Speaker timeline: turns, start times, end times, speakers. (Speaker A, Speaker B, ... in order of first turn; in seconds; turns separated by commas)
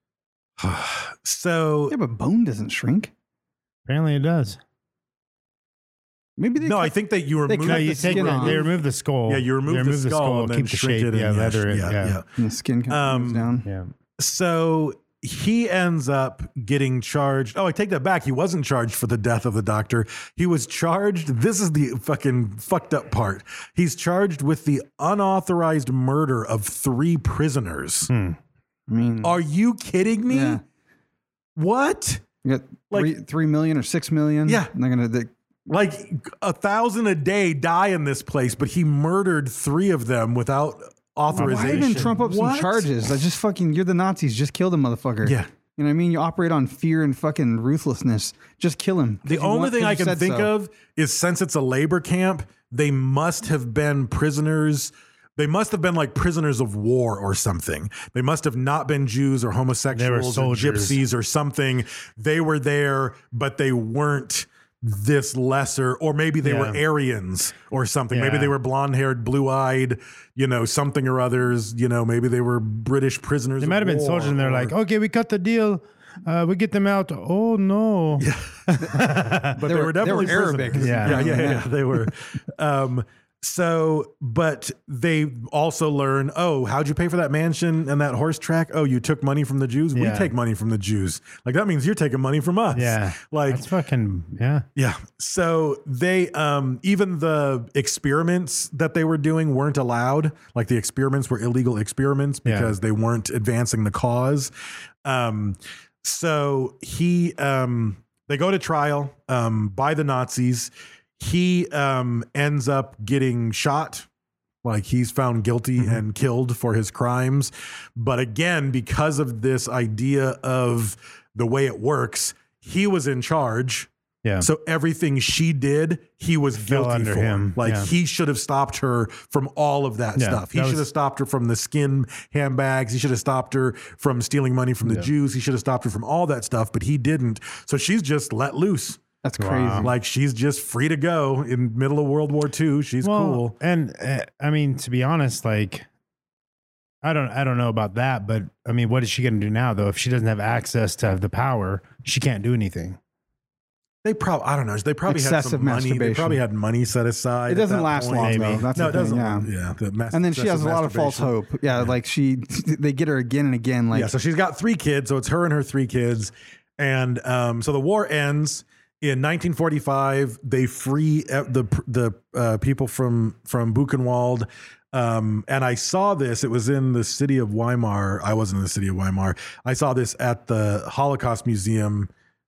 Speaker A: 0.6-1.9, Speaker B: 1.9-3.1, Speaker C: 3.9-4.6, Speaker B: 6.4-8.7, Speaker A: 6.6-8.7, Speaker C: 7.6-12.2, Speaker A: 9.2-12.2, Speaker B: 12.4-13.7, Speaker A: 12.9-13.6, Speaker C: 13.6-13.9, Speaker A: 14.2-28.1, Speaker C: 28.1-28.4, Speaker B: 28.9-29.4, Speaker A: 29.2-30.6, Speaker B: 30.3-30.6, Speaker A: 31.6-32.2, Speaker B: 32.4-35.3, Speaker A: 34.5-34.7, Speaker A: 35.7-43.0, Speaker B: 41.3-50.5, Speaker C: 41.3-42.1, Speaker A: 45.2-45.5, Speaker A: 49.2-74.8, Speaker C: 59.9-61.0, Speaker C: 66.4-66.8, Speaker C: 68.1-68.5, Speaker C: 73.6-79.5, Speaker A: 78.2-93.7, Speaker B: 79.6-81.7, Speaker C: 80.8-81.5, Speaker C: 89.9-90.3, Speaker C: 92.7-94.7, Speaker A: 94.8-104.5, Speaker C: 102.4-102.7, Speaker A: 105.0-114.1, Speaker A: 114.6-123.9, Speaker A: 124.4-139.0, Speaker C: 126.6-127.9, Speaker C: 130.2-130.9, Speaker B: 139.2-139.9, Speaker C: 139.4-139.9, Speaker A: 139.8-143.5, Speaker C: 143.0-145.8, Speaker C: 147.0-153.0, Speaker A: 154.0-161.8, Speaker B: 155.1-156.4, Speaker B: 157.5-159.5, Speaker C: 158.2-158.7, Speaker B: 160.1-164.1, Speaker A: 163.9-182.1